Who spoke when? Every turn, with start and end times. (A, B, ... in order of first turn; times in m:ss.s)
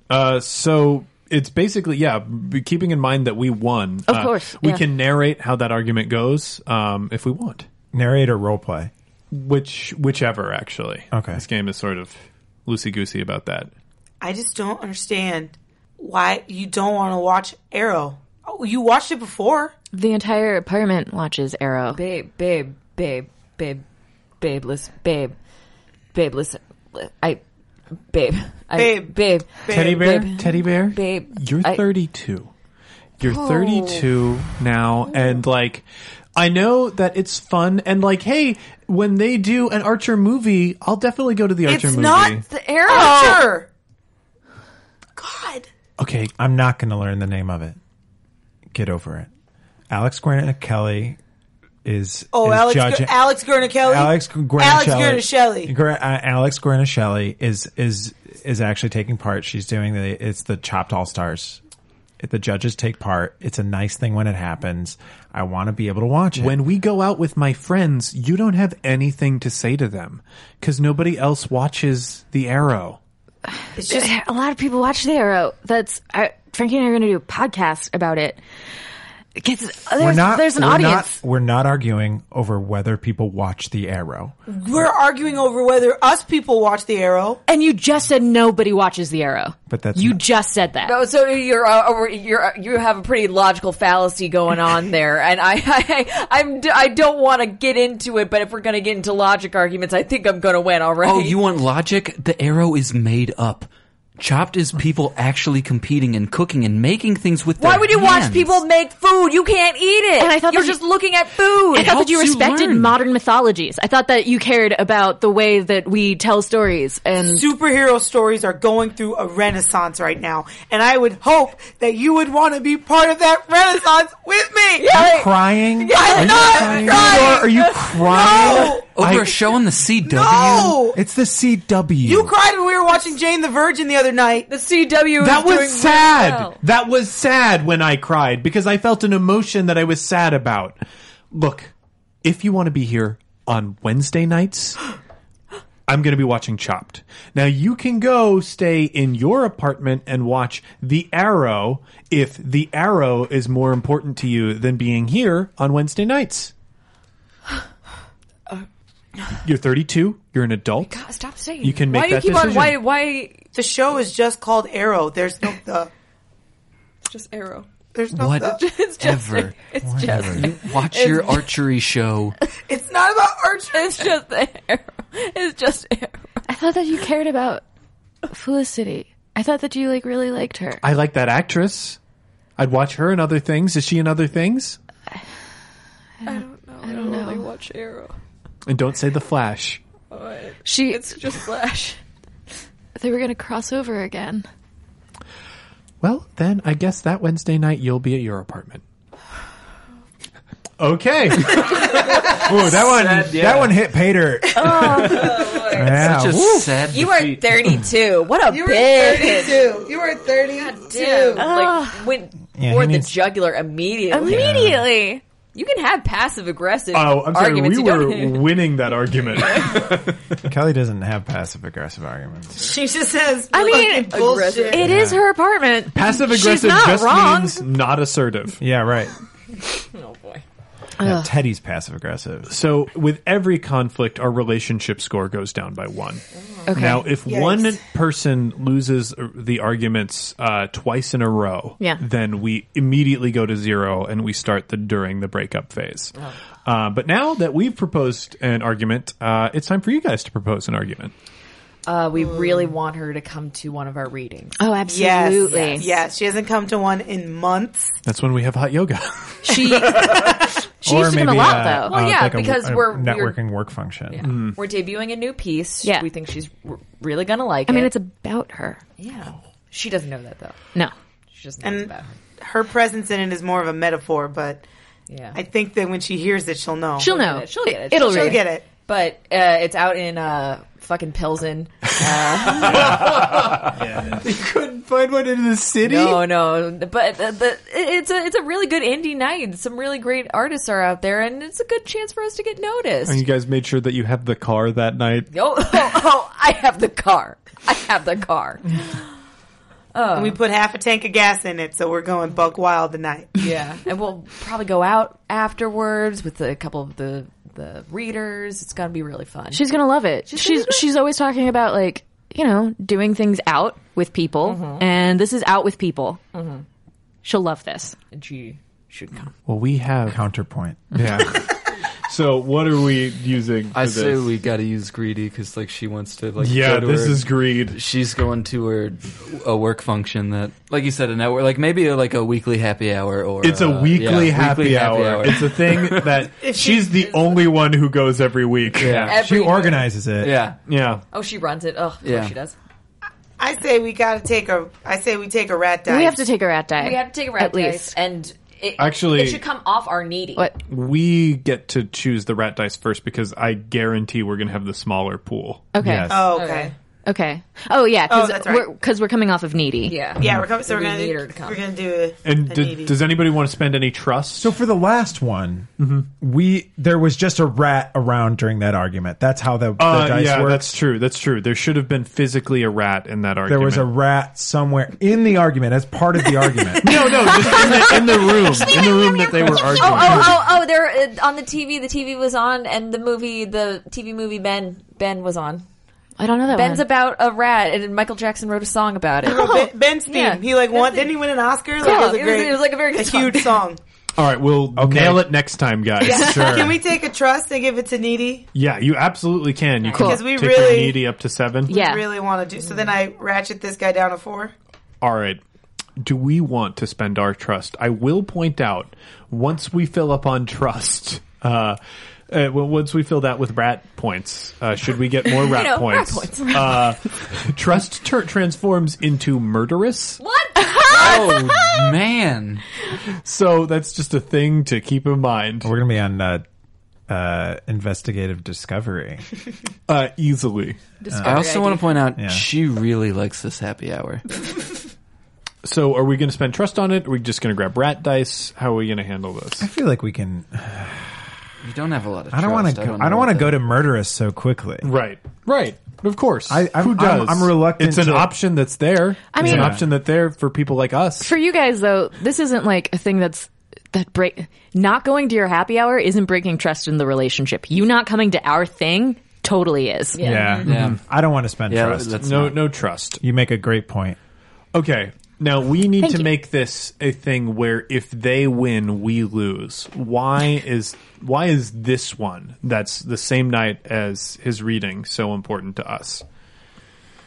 0:00.1-0:07.7 A
0:04.1-0:04.8 B
0:07.9-0:08.9 C
0:09.3-0:13.7 A
0:11.1-0:11.4 C
0:14.2-0:19.7 D
0:19.9-0:22.0 B
0:21.9-0:23.8 E
0:24.4-0:25.3 E
0:26.1-0:27.4 E
0:28.1-0:31.8 E
0:28.8-0:30.2 D
0:29.7-0:32.5 A
0:33.2-0:35.8 A
0:33.2-0:34.1 E
0:36.4-0:42.5 A
0:41.7-0:43.7 D
0:42.5-0:43.5 E
0:45.2-0:45.7 D
0:46.0-0:46.3 A
0:46.4-0:47.8 C
0:48.7-0:49.3 C
0:49.9-0:51.2 C
0:51.8-0:53.2 C
0:52.3-0:55.7 D
0:53.8-1:01.6 C
1:02.2-1:06.6 C
1:06.4-1:13.0 A
1:13.5-1:18.4 B
1:13.8-1:14.1 D
1:19.4-1:21.2 B
1:20.0-1:24.4 C
1:24.5-1:27.4 D
1:27.5-1:31.0 B
1:29.7-1:30.2 C
1:30.8-1:41.4 E
1:41.0-1:48.6 F
1:47.6-1:51.9 E
1:50.2-1:50.8 B
1:51.7-1:57.5 B
1:51.8-1:53.0 F
1:57.2-2:05.0 D
2:04.8-2:08.8 E
2:04.9-2:08.7 C
2:05.9-2:08.9 D
2:06.2-2:09.4 A
2:08.9-2:10.8 F
2:10.0-2:11.0 D
2:10.9-2:12.3 C
2:12.0-2:14.5 D
2:14.5-2:16.6 E
2:15.2-2:20.8 A
2:21.3-2:21.7 A
2:22.2-2:24.8 A
2:25.9-2:36.5 A
2:39.4-2:41.0 A
2:40.9-2:43.4 E
2:41.6-2:42.8 A
2:43.6-2:45.9 D
2:47.0-2:47.7 E
2:47.9-2:48.6 D
2:48.1-2:49.6 F
2:48.4-2:51.5 E
2:49.8-2:50.5 C
2:50.1-2:52.4 F
2:52.7-2:54.0 D
2:53.7-2:56.4 E
2:56.5-2:57.6 B
2:58.3-3:00.8 B
3:00.8-3:02.0 A
3:02.6-3:04.8 A
3:06.2-3:07.5 B
3:06.2-3:08.2 E
3:08.7-3:09.8 A
3:10.1-3:12.0 E
3:10.6-3:11.2 B
3:13.0-3:14.5 B
3:16.0-3:18.8 A
3:20.8-3:21.8 A
3:22.2-3:26.8 C
3:22.5-3:23.8 F
3:24.6-3:25.4 B
3:24.6-3:25.8 D
3:24.7-3:26.2 E
3:25.8-3:27.6 F
3:26.9-3:29.8 E
3:28.5-3:31.5 D
3:30.6-3:34.8 E
3:31.4-3:32.1 B
3:32.6-3:33.1 C
3:34.1-3:35.2 B
3:34.2-3:34.9 C
3:35.5-3:38.6 E
3:36.9-3:40.3 A
3:39.4-3:39.8 E
3:40.4-3:42.7 C
3:42.6-3:44.9 D
3:43.5-3:44.2 B
3:43.5-3:44.9 E
3:44.7-3:47.7 B
3:44.8-3:45.2 C
3:45.9-3:48.6 A
3:48.6-3:49.1 C
3:49.9-3:50.4 E
3:51.0-3:51.3 B
3:51.0-3:52.5 C
3:52.5-4:11.1 A
3:56.4-3:56.9 E
3:56.7-3:57.1 B
3:57.2-3:57.8 D
4:11.9-4:14.6 E
4:12.2-4:12.5 D
4:14.6-4:15.9 B
4:14.9-4:18.0 D
4:15.5-4:15.9 E
4:18.0-4:20.3 A
4:19.4-4:22.0 B
4:19.9-4:20.2 D
4:20.8-4:24.3 C
4:21.7-4:23.4 E
4:24.1-4:27.9 E
4:24.2-4:24.6 A
4:27.7-4:28.8 B
4:29.0-4:30.6 E
4:31.3-4:32.1 E
4:31.6-4:34.6 D
4:35.1-4:35.4 E
4:35.4-4:37.1 D
4:37.0-4:38.5 B
4:37.0-4:43.2 E
4:37.9-4:38.6 D
4:42.4-4:46.2 A
4:45.8-4:53.2 E
4:53.1-4:55.3 A
4:55.3-4:59.1 E
4:59.9-5:00.4 E
5:00.1-5:03.3 D
5:03.4-5:09.7 E
5:09.5-5:16.2 B
5:10.3-5:10.8 E
5:14.4-5:14.8 E
5:16.3-5:16.6 E
5:17.2-5:18.0 B
5:18.1-5:19.3 E
5:19.5-5:20.2 A
5:20.1-5:21.2 C
5:20.9-5:24.3 A
5:23.7-5:36.1 F
5:26.4-5:27.8 A
5:33.4-5:39.2 A
5:36.4-5:37.4 D
5:38.8-5:39.2 F
5:38.8-5:40.4 C
5:39.0-5:39.9 E
5:40.2-5:40.6 F
5:40.7-5:41.0 A
5:41.1-5:42.6 E
5:42.0-5:42.4 F
5:43.4-5:46.2 D
5:45.9-5:47.9 B
5:46.8-5:50.5 E
5:48.8-5:49.4 A
5:50.4-5:50.6 B
5:50.7-5:55.7 A
5:55.7-5:56.3 B
5:55.8-5:56.3 C
5:56.1-5:56.7 D
5:56.3-5:56.7 E
5:57.1-6:00.1 B
5:58.1-5:58.7 D
5:59.9-6:01.6 E
6:00.2-6:03.0 D
6:00.2-6:00.5 C
6:02.2-6:04.6 A
6:04.4-6:10.8 C
6:05.8-6:06.1 A
6:09.8-6:13.9 A
6:13.5-6:17.6 C
6:16.8-6:20.4 A
6:17.3-6:25.6 E
6:26.2-6:26.8 B
6:26.5-6:29.6 E
6:29.2-6:33.8 D
6:29.2-6:30.4 B
6:30.1-6:31.2 E
6:31.8-6:33.6 E
6:31.8-6:32.1 B
6:34.2-6:36.6 A
6:34.8-6:35.3 C
6:36.0-6:38.5 D
6:36.1-6:36.8 C
6:38.5-6:41.7 A
6:39.9-6:40.2 B
6:40.0-6:41.0 D
6:41.7-6:42.1 B
6:41.7-6:44.5 D
6:45.0-6:45.4 A
6:46.0-6:51.8 A
6:52.3-7:00.2 A
6:55.2-6:56.9 E
7:00.2-7:01.7 E
7:00.6-7:01.6 B
7:00.9-7:02.6 F
7:03.1-7:05.7 A
7:05.6-7:06.4 C
7:07.1-7:09.2 C
7:09.9-7:10.8 A
7:11.0-7:11.9 E
7:11.1-7:11.5 C
7:11.2-7:14.2 F
7:12.2-7:12.5 C
7:15.6-7:19.7 A
7:19.6-7:21.3 C
7:21.6-7:23.6 F
7:22.3-7:24.9 C
7:24.8-7:31.3 A
7:26.5-7:28.4 C
7:29.3-7:29.8 B
7:29.4-7:29.8 C
7:31.2-7:40.4 B
7:40.2-7:40.7 E
7:40.2-7:42.5 C
7:40.6-7:41.0 F
7:40.7-7:41.0 A
7:41.7-7:42.6 F
7:42.2-7:43.2 A
7:43.2-7:44.2 C
7:44.7-7:56.2 A
7:46.0-7:46.3 B